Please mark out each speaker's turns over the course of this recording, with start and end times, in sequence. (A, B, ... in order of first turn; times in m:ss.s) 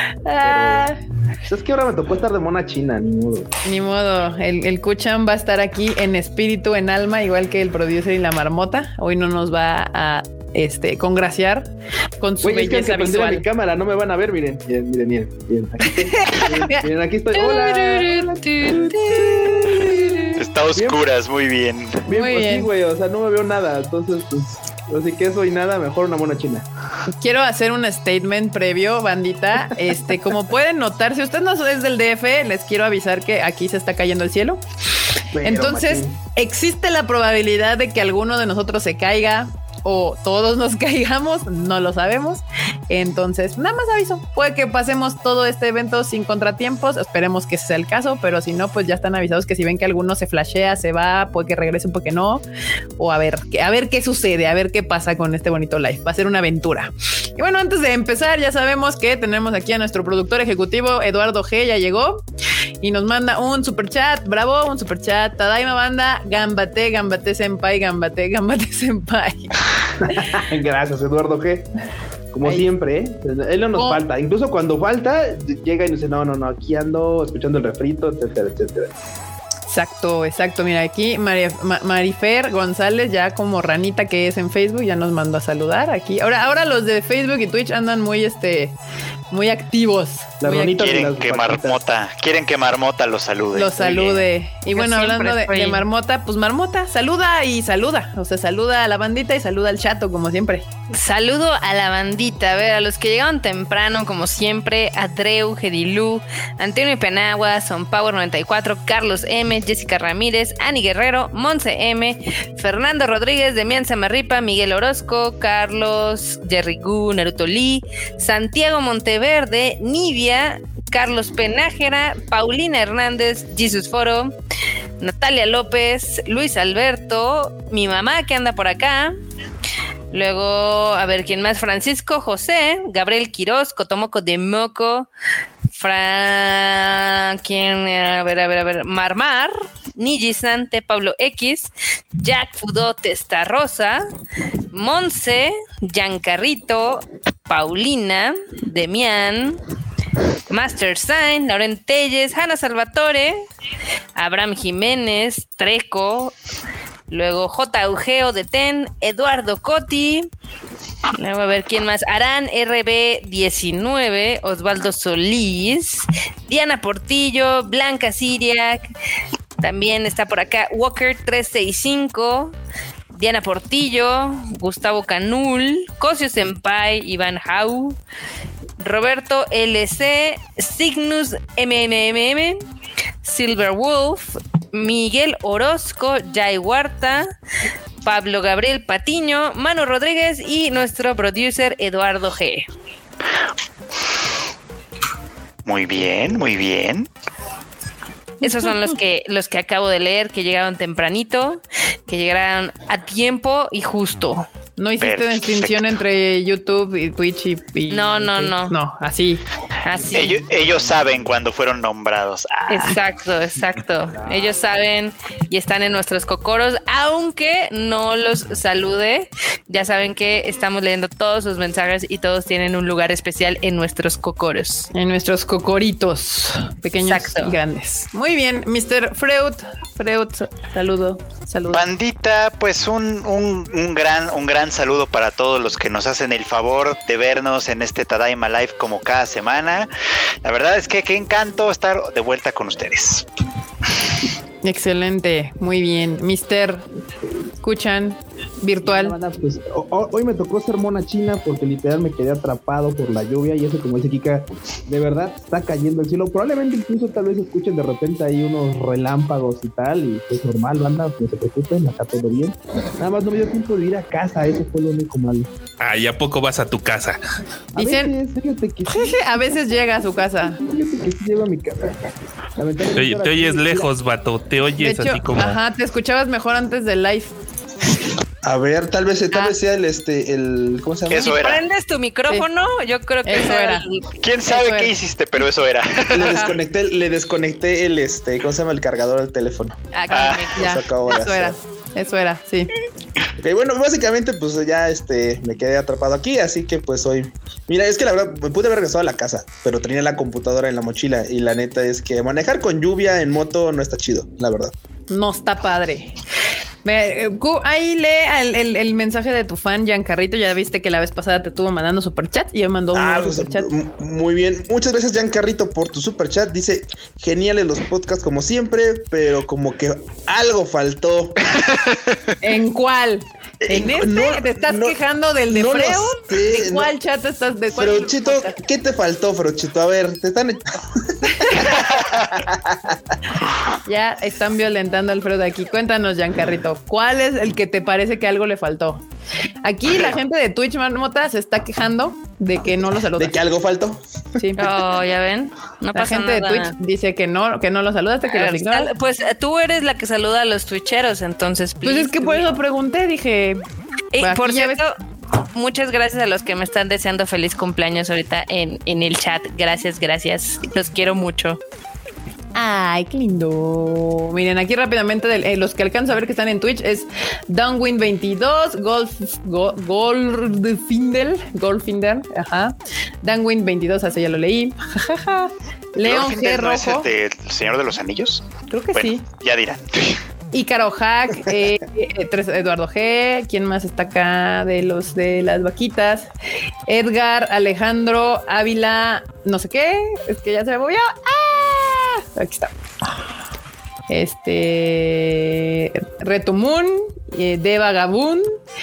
0:00.3-0:00.9 A
0:00.4-0:00.9 B
0:01.5-0:03.5 B
0:03.6-0:13.4 A
0:12.4-0:19.9 B
0:16.1-0:16.8 A
0:17.3-0:20.3 C
0:19.7-0:20.2 A
0:20.4-0:22.0 D
0:20.7-0:21.0 B
0:22.1-0:26.7 B
0:22.1-0:22.7 A
0:27.1-0:34.6 A
0:35.3-0:36.2 B
0:35.4-0:52.4 A
0:53.0-1:02.2 A
1:02.8-1:09.6 A
1:10.0-1:11.7 B
1:12.3-1:18.9 B
1:19.7-1:28.7 A
1:29.3-1:30.9 A
1:30.4-1:31.8 B
1:30.7-1:34.2 D
1:33.6-1:40.7 A
1:34.7-1:35.8 C
1:40.9-2:04.3 C
2:05.0-2:09.1 C
2:10.1-2:15.1 C
2:15.7-2:24.0 C
2:24.7-2:29.6 C
2:30.5-2:33.4 C
2:34.2-2:36.3 C
2:37.1-2:40.3 C
2:41.1-2:48.9 C
2:49.6-2:52.5 C
2:53.2-2:58.0 C
2:58.8-3:02.6 C
3:03.2-3:07.3 C
3:08.0-3:12.7 C
3:15.6-3:17.1 D
3:18.4-3:24.5 C
3:24.8-3:29.4 A
3:25.0-3:25.9 D
3:27.9-3:28.8 C
3:29.8-3:30.5 C
3:30.1-3:32.9 D
3:32.7-3:44.9 C
3:44.9-3:51.9 A
3:47.0-3:47.6 C
3:51.7-3:59.9 D
4:00.4-4:03.3 D
4:04.6-4:06.8 A
4:07.6-4:09.2 A
4:08.8-4:25.5 B
4:25.8-4:27.2 E
4:27.8-4:29.2 B
4:27.8-4:28.1 A
4:28.9-4:30.6 A
4:30.6-4:32.0 B
4:32.6-4:33.9 B
4:33.0-4:35.6 E
4:34.8-4:37.3 A
4:38.4-4:41.4 B
4:41.1-4:41.6 D
4:41.2-4:44.0 C
4:43.3-4:43.8 A
4:44.2-4:46.5 D
4:44.5-4:44.9 A
4:46.1-4:49.8 B
4:49.9-4:50.8 C
4:50.1-4:50.6 D
4:50.6-4:51.6 B
4:50.6-4:52.7 A
4:53.4-5:04.7 B
5:05.1-5:06.1 A
5:06.8-5:13.7 A
5:12.9-5:21.5 B
5:22.4-5:28.6 A
5:23.6-5:25.0 B
5:25.5-5:26.9 B
5:27.7-5:33.0 B
5:31.3-5:31.8 A
5:33.9-5:39.0 A
5:39.6-5:43.3 A
5:43.2-5:44.4 B
5:44.4-5:44.6 A
5:44.6-5:46.7 C
5:46.0-5:48.9 A
5:48.3-5:52.6 C
5:51.8-5:53.6 A
5:54.1-5:54.9 C
5:54.2-5:54.8 A
5:55.5-6:01.6 C
6:02.6-6:17.1 A
6:16.0-6:20.2 D
6:18.7-6:19.2 A
6:20.5-6:26.3 A
6:26.9-6:32.7 A
6:34.1-6:38.6 A